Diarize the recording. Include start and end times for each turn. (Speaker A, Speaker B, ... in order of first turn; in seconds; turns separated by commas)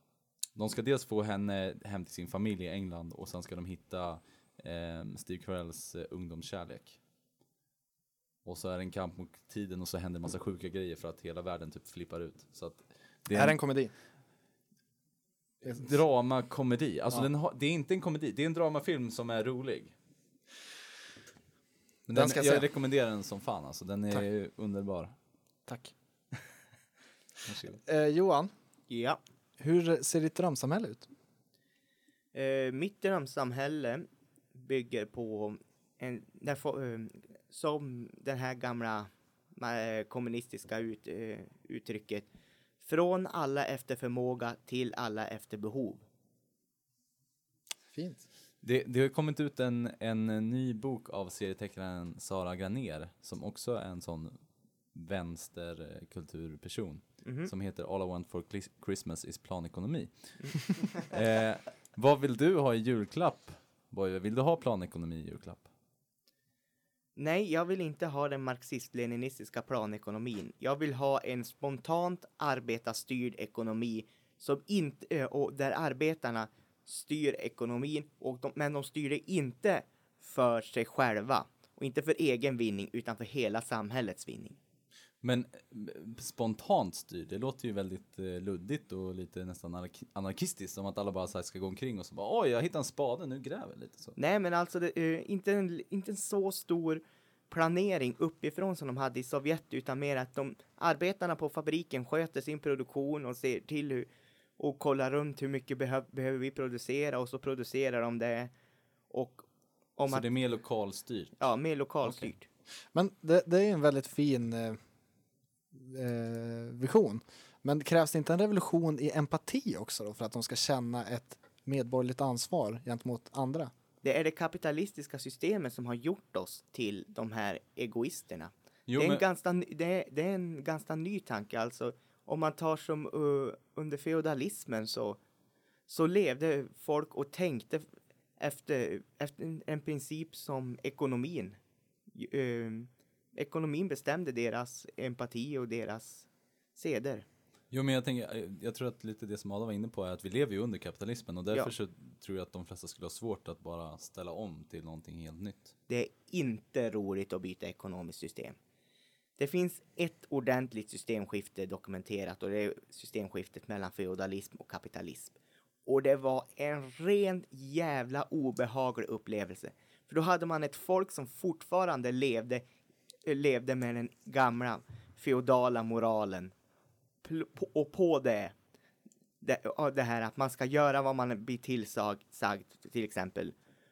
Speaker A: 0.6-7.0, Speaker A: 8.4-13.6, Speaker B: 13.3-13.9, Speaker A: 15.6-19.9, Speaker B: 22.1-22.7, Speaker A: 22.1-25.1, Speaker B: 25.7-25.9, Speaker A: 27.5-27.8, Speaker B: 27.9-28.5, Speaker C: 28.9-29.2, Speaker B: 29.6-31.1, Speaker C: 32.3-42.3, Speaker C: 42.8-46.0, Speaker B: 47.9-48.2, Speaker A: 48.6-54.4, Speaker A: 54.9-65.7, Speaker C: 57.2-57.5, Speaker C: 67.2-84.6, Speaker A: 85.2-94.2, Speaker C: 94.2-108.5, Speaker C: 109.1-110.3, Speaker A: 110.1-111.4, Speaker C: 111.4-112.5, Speaker B: 112.9-114.8, Speaker B: 115.7-123.7, Speaker C: 124.0-135.2, Speaker A: 128.9-129.2, Speaker C: 135.9-141.6, Speaker C: 142.1-147.2, Speaker A: 147.7-155.7, Speaker C: 155.9-158.6, Speaker C: 159.4-165.3, Speaker C: 165.9-172.6, Speaker C: 173.2-176.5, Speaker C: 177.2-178.5, Speaker C: 179.4-183.6